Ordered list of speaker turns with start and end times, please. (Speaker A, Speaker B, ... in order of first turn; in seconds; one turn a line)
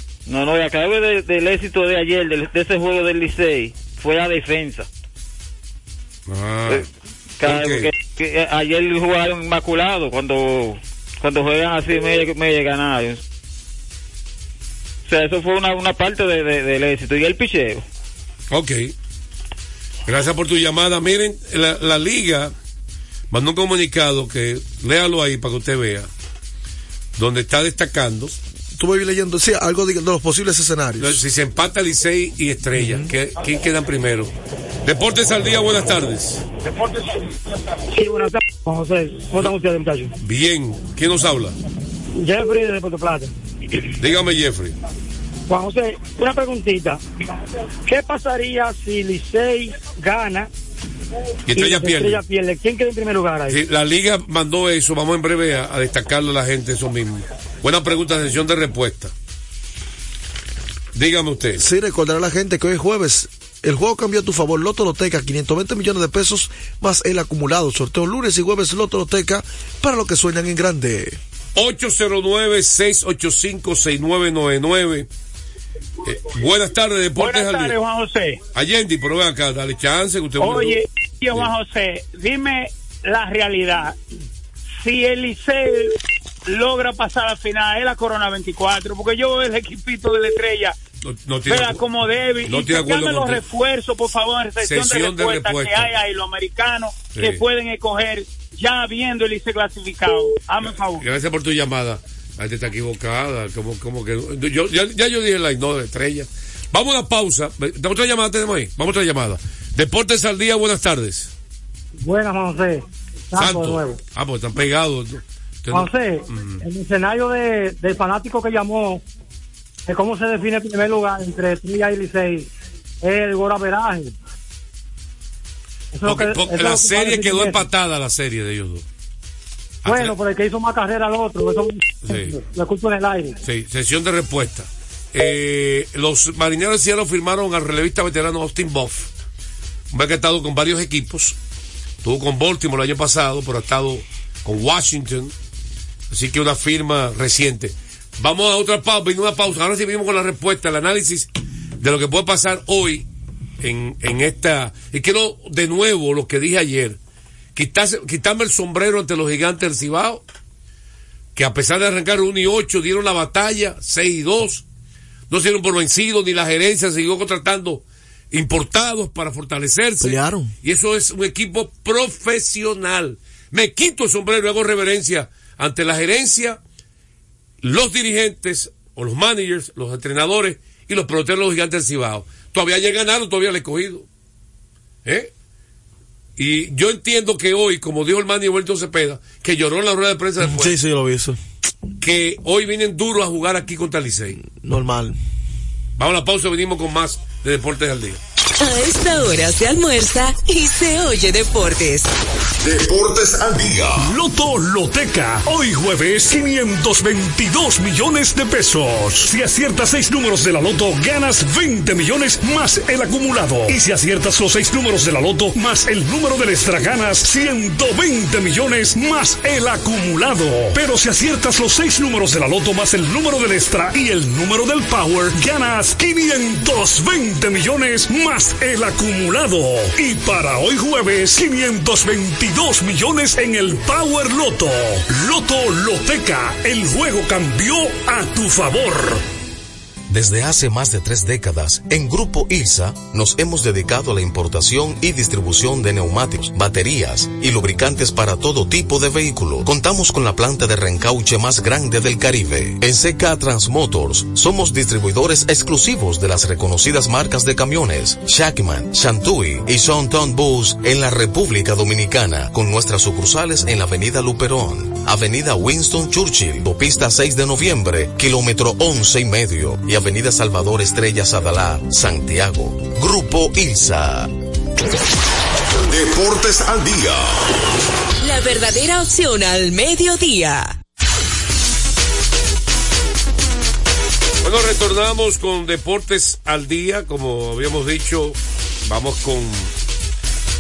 Speaker A: 0.3-4.9
Speaker B: 6.3-6.9
Speaker A: 7.4-13.2
Speaker B: 7.4-7.9
Speaker A: 15.1-17.8
Speaker B: 18.5-18.9
Speaker B: 20.1-22.5
Speaker B: 23.3-26.1
Speaker B: 27.2-28.4
Speaker C: 28.8-31.2
Speaker B: 31.0-34.3
Speaker C: 32.8-33.1
Speaker B: 34.8-36.4
Speaker D: 37.9-40.1
Speaker B: 40.2-41.6
Speaker D: 42.2-43.3
Speaker B: 44.0-44.8
Speaker D: 45.5-47.0
Speaker D: 47.9-50.5
Speaker B: 51.5-52.2
Speaker D: 51.5-53.6
Speaker B: 53.5-59.1
Speaker B: 61.0-61.6
Speaker C: 61.6-71.2
Speaker B: 71.5-75.1
Speaker B: 76.0-77.8
Speaker E: 77.2-78.4
Speaker B: 78.5-80.8
Speaker E: 80.4-84.0
Speaker E: 84.8-85.9
Speaker E: 86.5-90.8
Speaker B: 91.0-91.8
Speaker E: 91.5-101.0
Speaker B: 92.4-93.4
Speaker B: 94.6-95.9
Speaker B: 97.1-97.4
Speaker B: 100.7-111.3
Speaker D: 112.0-114.0
Speaker B: 113.4-116.6
Speaker D: 115.7-119.0
Speaker D: 119.9-122.5
Speaker D: 123.0-124.1
Speaker D: 125.9-127.6
Speaker B: 126.0-128.8
Speaker B: 129.8-130.2
Speaker D: 129.9-133.4
Speaker B: 132.1-132.4
Speaker B: 133.4-139.1
Speaker B: 139.9-141.4
Speaker B: 142.0-145.3
Speaker B: 146.1-151.3
Speaker B: 151.8-153.1
Speaker B: 153.6-157.0
Speaker B: 157.6-160.2
Speaker B: 161.3-164.6
Speaker B: 165.3-176.6
Speaker C: 170.0-170.5
Speaker B: 177.6-184.1
Speaker B: 185.1-185.3
Speaker B: 186.4-190.8
Speaker C: 190.4-191.4
Speaker B: 192.0-194.4
Speaker C: 194.4-195.2
Speaker B: 196.0-198.2
Speaker F: 198.6-202.1
Speaker G: 202.6-204.1
Speaker H: 204.0-239.2
Speaker I: 240.1-274.3
Speaker G: 275.8-277.5
Speaker F: 278.2-280.7
Speaker B: 284.4-289.7